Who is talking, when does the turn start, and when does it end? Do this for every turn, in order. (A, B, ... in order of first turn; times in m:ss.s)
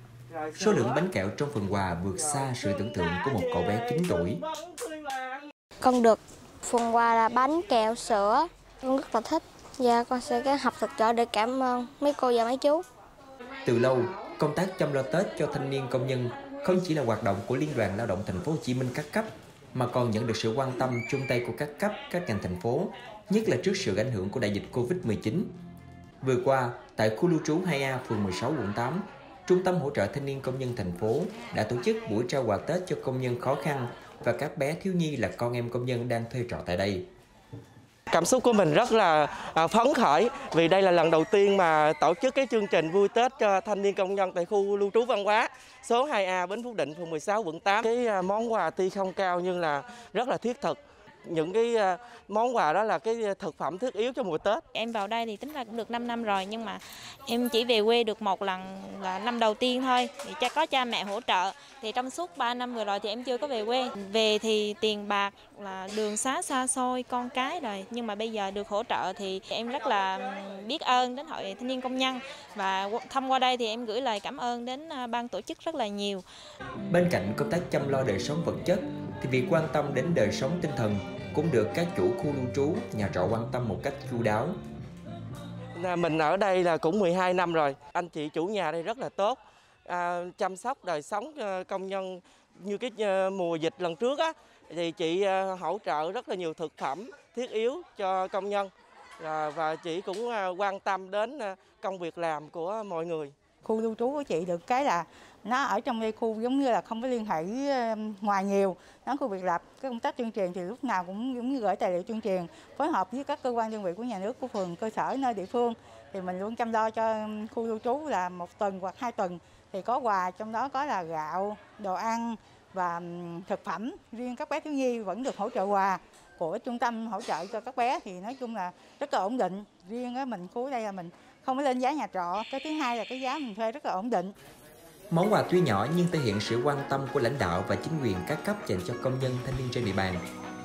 0:00.3-0:01.0 A
0:00.6-0:04.4 B
0:02.2-0:05.5 A
0:05.8-0:12.8 C
0:13.6-0:25.5 B
0:26.2-0:37.1 B
0:38.1-0:54.6 A
0:54.7-1:16.2 D
1:16.9-1:24.6 B
1:25.8-1:43.3 A
1:43.6-2:14.3 E
2:15.1-2:20.2 B